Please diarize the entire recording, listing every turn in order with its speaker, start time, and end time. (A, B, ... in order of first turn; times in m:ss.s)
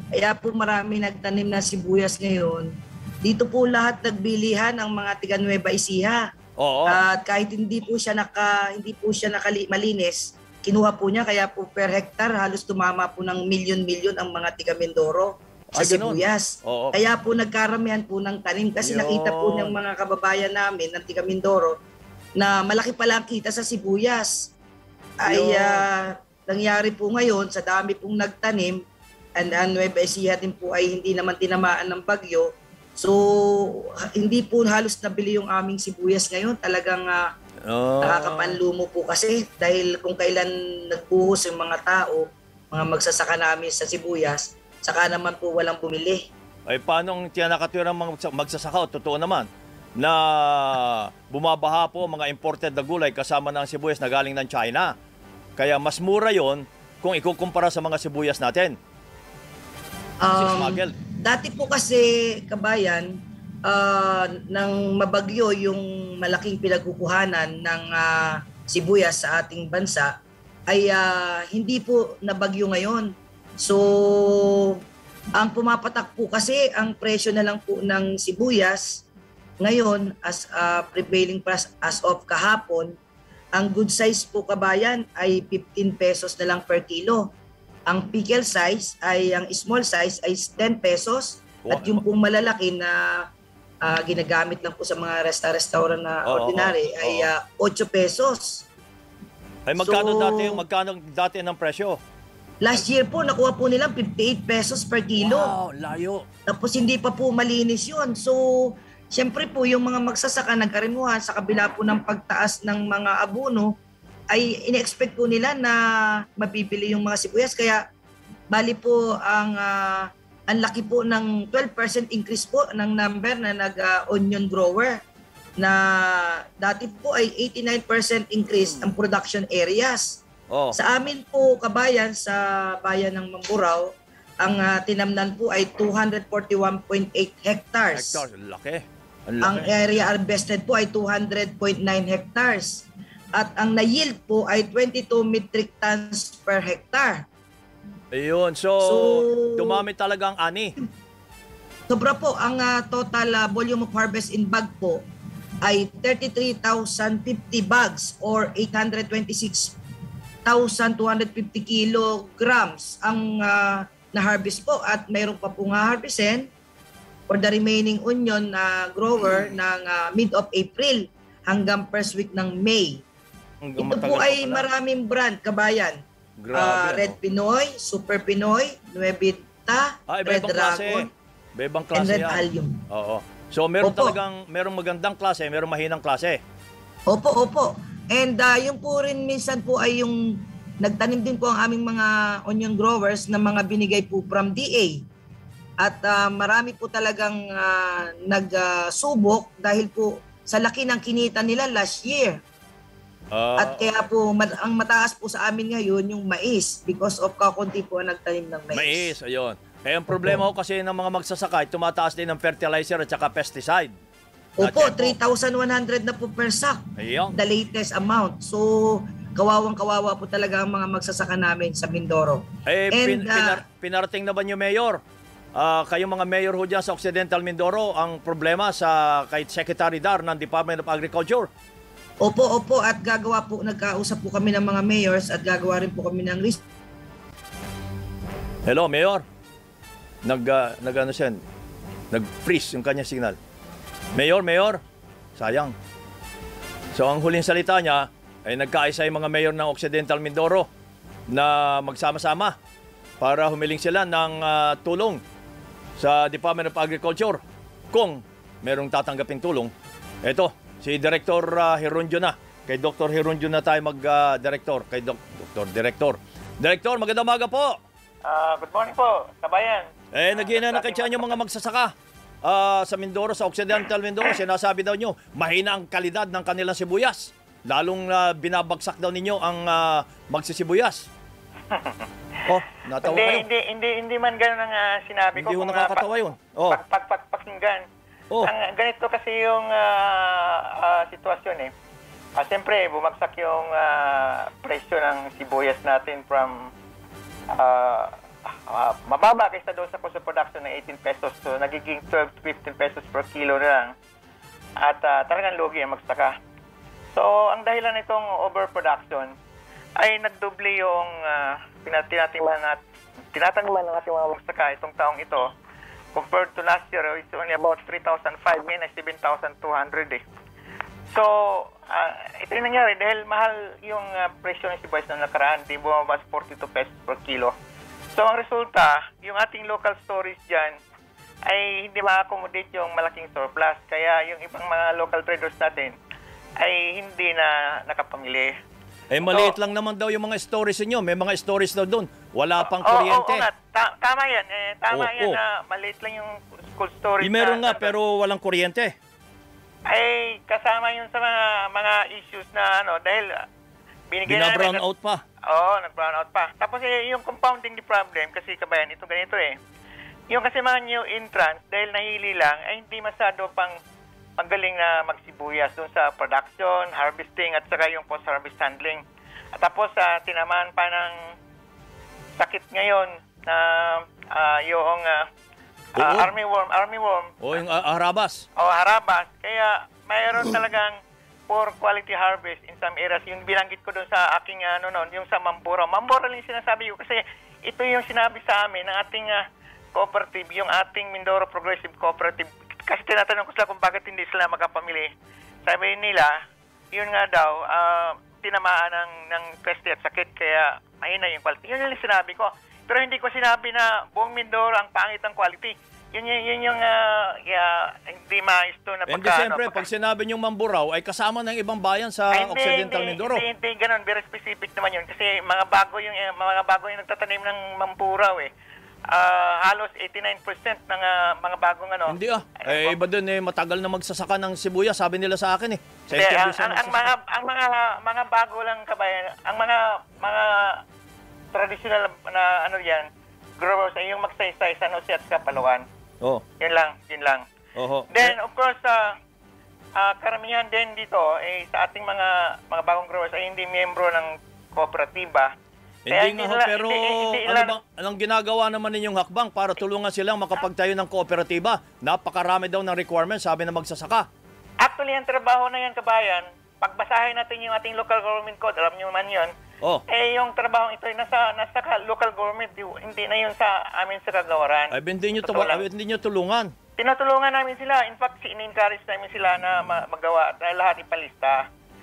0:00.1-0:02.7 A
0:03.2-0:06.3 A
0:06.6-0:07.0 B
0:06.9-0:21.8 A
0:15.7-0:17.0 B
0:18.8-0:19.7 B
0:22.4-0:24.5 A
0:25.2-0:28.8 A
0:25.2-0:25.8 B
0:29.3-0:37.3 A
0:37.7-0:38.6 B
0:38.0-0:46.3 A
0:46.7-0:49.5 B
0:50.0-0:54.9 B
0:55.6-0:58.8 B
1:00.2-1:10.2 A
1:00.3-1:00.9 B
1:10.7-1:14.8 A
1:15.4-1:19.1 A
1:19.6-1:23.0 A
1:23.6-1:27.3 A
1:27.9-1:33.3 A
1:31.6-1:32.0 B
1:33.8-1:38.7 A
1:36.2-1:37.3 B
1:39.7-1:42.0 B
1:39.8-1:40.6 A
1:42.6-1:45.5 A
1:45.2-1:46.2 B
1:46.5-1:53.7 A
1:54.3-1:57.8 A
1:58.5-2:05.0 A
2:05.6-2:10.2 A
2:10.5-2:10.8 B
2:10.7-2:18.2 A
2:17.9-2:19.7 B
2:19.4-2:27.2 A
2:28.1-2:30.7 B
2:28.8-2:29.8 A
2:31.9-2:35.0 A
2:35.6-2:39.8 A
2:40.4-2:46.5 A
2:47.3-2:53.0 A
2:53.6-2:54.7 B
2:53.8-2:56.0 A
2:56.4-2:57.2 B
2:56.5-3:01.1 A
3:00.1-3:06.4 B
3:01.9-3:02.8 A
3:03.8-3:04.2 A
3:07.1-3:15.0 A
3:15.8-3:22.4 A
3:23.3-3:23.8 B
3:23.6-3:29.1 A
3:28.7-3:33.9 B
3:34.6-3:43.6 A
3:34.6-3:35.2 B
3:37.0-3:37.3 B
3:42.6-3:45.0 B
3:45.6-3:51.5 B
3:52.2-3:56.6 A
3:58.6-3:59.2 B
4:00.2-4:01.4 B
4:02.1-4:03.4 B
4:04.1-4:04.8 B
4:05.4-4:05.7 B
4:06.9-4:10.7 B
4:11.3-4:12.5 B
4:13.2-4:15.2 B
4:16.0-4:19.7 B
4:20.2-4:27.7 B
4:28.2-4:31.4 C
4:30.1-4:41.1 B
4:41.7-4:42.1 C
4:42.5-4:43.5 B
4:43.0-4:46.1 C
4:45.3-4:46.8 B
4:46.7-4:47.8 C
4:48.4-4:51.7 C
4:52.4-4:56.7 C
4:57.5-5:03.9 C
5:04.8-5:06.4 C
5:07.1-5:09.3 C
5:10.0-5:12.8 C
5:13.3-5:15.5 C
5:16.1-5:20.2 C
5:21.1-5:27.5 C
5:28.1-5:30.8 C
5:31.5-5:36.0 C
5:36.6-5:38.5 C
5:39.1-5:43.5 B
5:39.3-5:39.6 C
5:42.6-5:47.9 C
5:44.9-5:45.4 B
5:47.2-5:48.9 B
5:49.9-5:53.4 C
5:54.1-5:54.8 C
5:54.3-5:55.2 B
5:55.4-5:59.5 C
6:00.3-6:03.7 C
6:04.4-6:09.0 C
6:09.6-6:11.1 C
6:12.4-6:15.2 C
6:16.0-6:16.3 B
6:16.0-6:17.4 C
6:17.4-6:18.4 B
6:18.6-6:20.9 C
6:21.5-6:29.4 C
6:29.9-6:35.1 C
6:35.6-6:36.3 C
6:36.9-6:49.9 C
6:49.1-6:53.4 B
6:52.3-6:58.5 C
6:59.1-7:03.0 C
7:02.1-7:07.1 B
7:06.1-7:10.8 C
7:11.5-7:13.0 C
7:13.6-7:15.8 C
7:16.6-7:17.4 C
7:17.7-7:18.4 B
7:18.1-7:19.1 C
7:20.0-7:25.5 C
7:26.1-7:34.3 B
7:26.1-7:27.8 C
7:34.8-7:39.5 C
7:40.1-7:45.8 C
7:44.9-7:46.7 B
7:47.0-7:51.6 C